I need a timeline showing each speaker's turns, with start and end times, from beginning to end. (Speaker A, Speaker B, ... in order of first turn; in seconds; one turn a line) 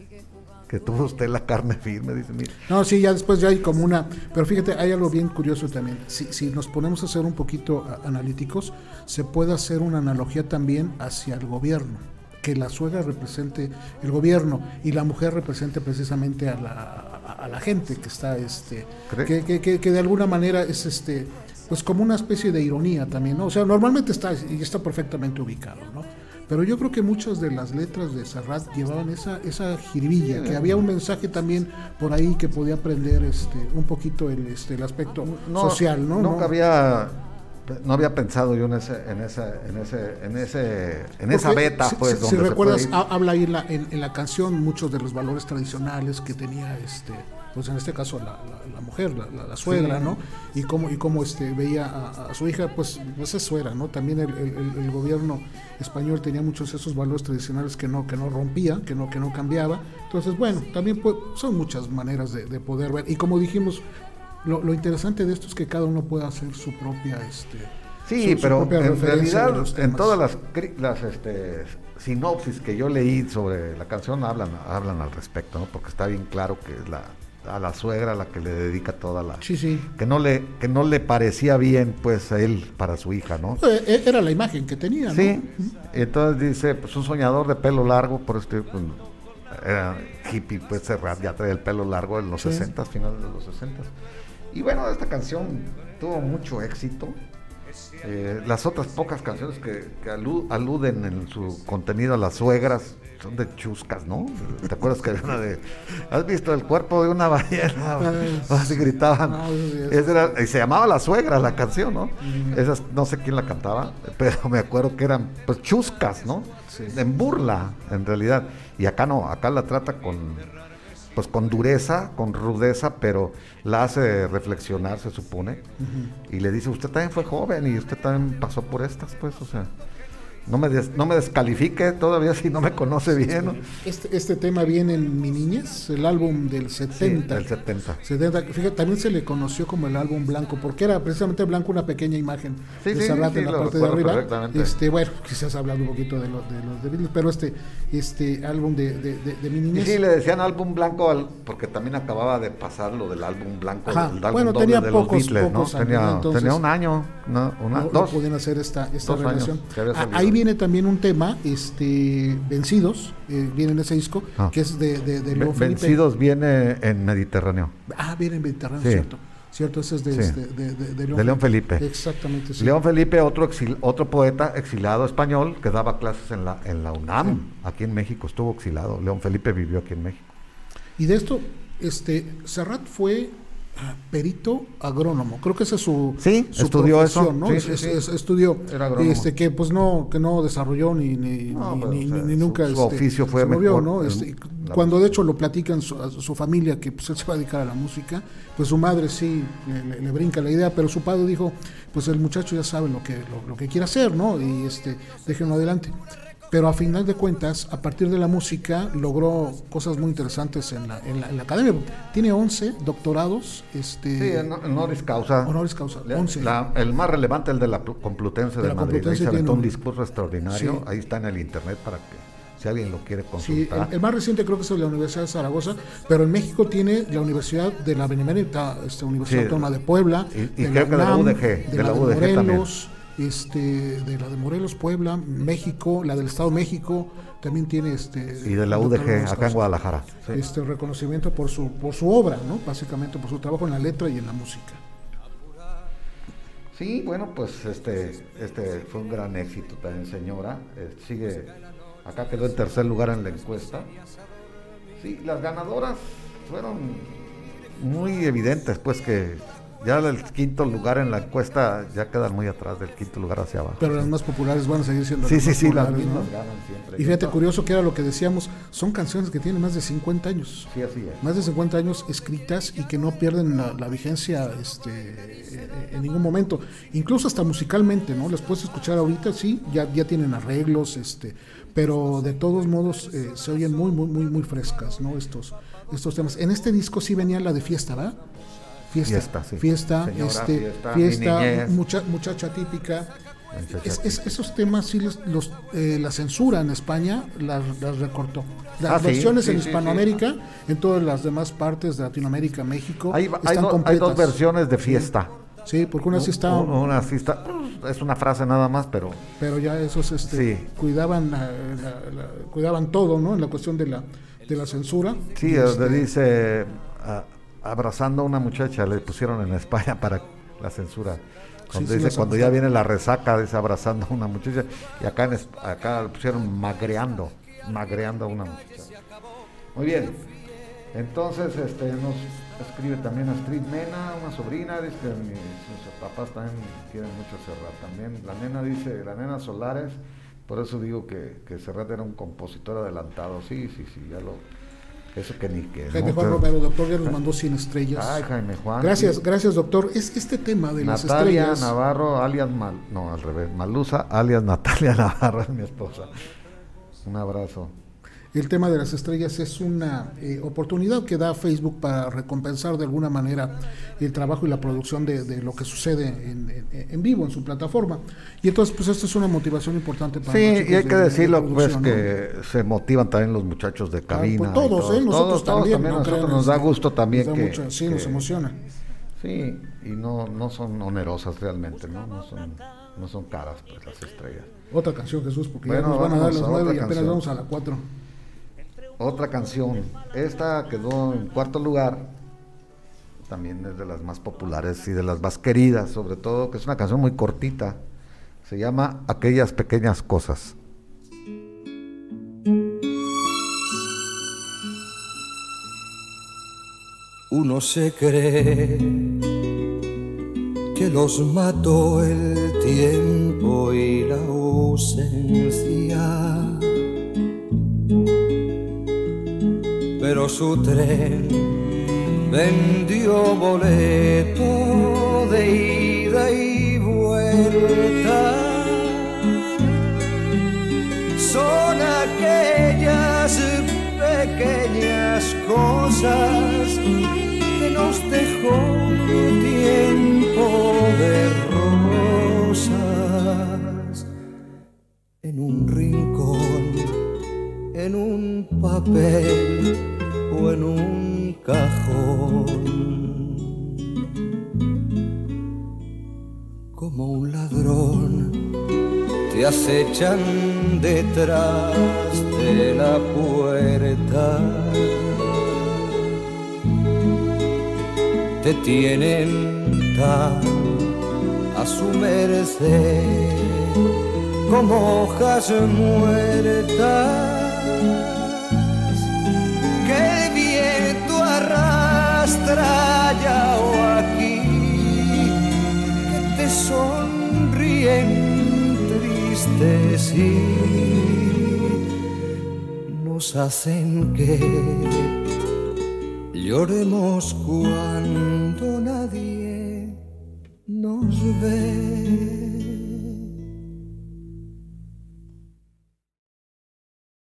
Speaker A: 0.7-2.6
Speaker B: 2.7-36.5
Speaker A: 30.3-30.8
Speaker A: 35.2-43.0
Speaker B: 41.3-63.8
Speaker A: 49.6-50.1
Speaker B: 64.4-70.2
Speaker A: 68.0-83.6
Speaker B: 79.4-79.9
Speaker B: 83.6-85.7
Speaker A: 85.1-93.9
Speaker B: 92.4-92.7
Speaker A: 94.5-97.2
Speaker A: 98.0-120.5
Speaker B: 108.0-110.2
Speaker B: 112.2-112.6
Speaker B: 116.7-117.0
Speaker A: 121.2-125.6
Speaker B: 125.8-126.2
Speaker A: 126.3-129.7
Speaker A: 130.5-133.7
Speaker B: 133.7-137.5
Speaker A: 136.9-138.0
Speaker B: 138.0-150.0
Speaker A: 142.8-144.8
Speaker A: 149.7-158.2
Speaker B: 153.9-156.6
Speaker B: 157.7-166.0
Speaker A: 159.0-160.4
Speaker A: 165.3-167.8
Speaker B: 167.9-172.8
Speaker A: 168.8-169.1
Speaker A: 170.1-170.4
Speaker A: 171.1-171.9
Speaker A: 172.6-180.3
Speaker B: 181.0-206.0
Speaker A: 186.2-188.0
Speaker A: 188.6-189.3
Speaker A: 191.5-195.2
Speaker B: 206.5-214.5
Speaker A: 214.2-223.9
Speaker B: 215.4-216.5
Speaker B: 218.6-219.7
Speaker B: 220.5-220.8
Speaker B: 223.4-239.7
Speaker A: 229.3-229.7
Speaker A: 230.3-232.7
Speaker A: 238.4-240.4
Speaker B: 240.3-244.8
Speaker A: 246.7-253.9
Speaker A: 255.0-264.1
Speaker B: 263.8-266.3
Speaker A: 265.2-267.4
Speaker B: 267.0-270.7
Speaker A: 270.7-271.2
Speaker B: 271.2-288.2
Speaker B: 288.9-293.1
Speaker A: 289.0-291.8
Speaker A: 293.5-294.4
Speaker B: 293.7-305.1
Speaker A: 298.8-300.2
Speaker A: 303.1-305.3
Speaker B: 305.7-306.8
Speaker A: 306.1-309.3
Speaker B: 309.4-316.1
Speaker A: 310.3-310.7
Speaker A: 315.4-328.9
Speaker B: 321.7-322.6
Speaker A: 329.8-330.3
Speaker A: 330.9-344.4
Speaker A: 345.1-346.5
Speaker B: 345.9-348.2
Speaker A: 347.9-349.2
Speaker B: 348.8-351.7
Speaker A: 350.8-356.1
Speaker A: 357.0-357.7
Speaker B: 358.3-372.1
Speaker A: 370.3-378.3
Speaker B: 374.1-378.6
Speaker A: 379.2-384.5
Speaker B: 384.7-387.9
Speaker A: 385.6-387.2
Speaker A: 389.0-392.1
Speaker A: 393.3-397.8
Speaker A: 398.4-400.6
Speaker C: 407.3-409.3
Speaker C: 410.7-416.9
Speaker C: 420.0-430.3
Speaker C: 431.1-444.0
Speaker C: 445.2-447.0
Speaker C: 447.7-453.8
Speaker C: 456.8-458.5
Speaker C: 459.3-466.2
Speaker C: 468.4-471.0
Speaker C: 471.5-473.9
Speaker C: 474.5-479.0
Speaker C: 479.8-491.8
Speaker C: 492.9-495.2
Speaker C: 496.3-500.0
Speaker C: 500.7-503.3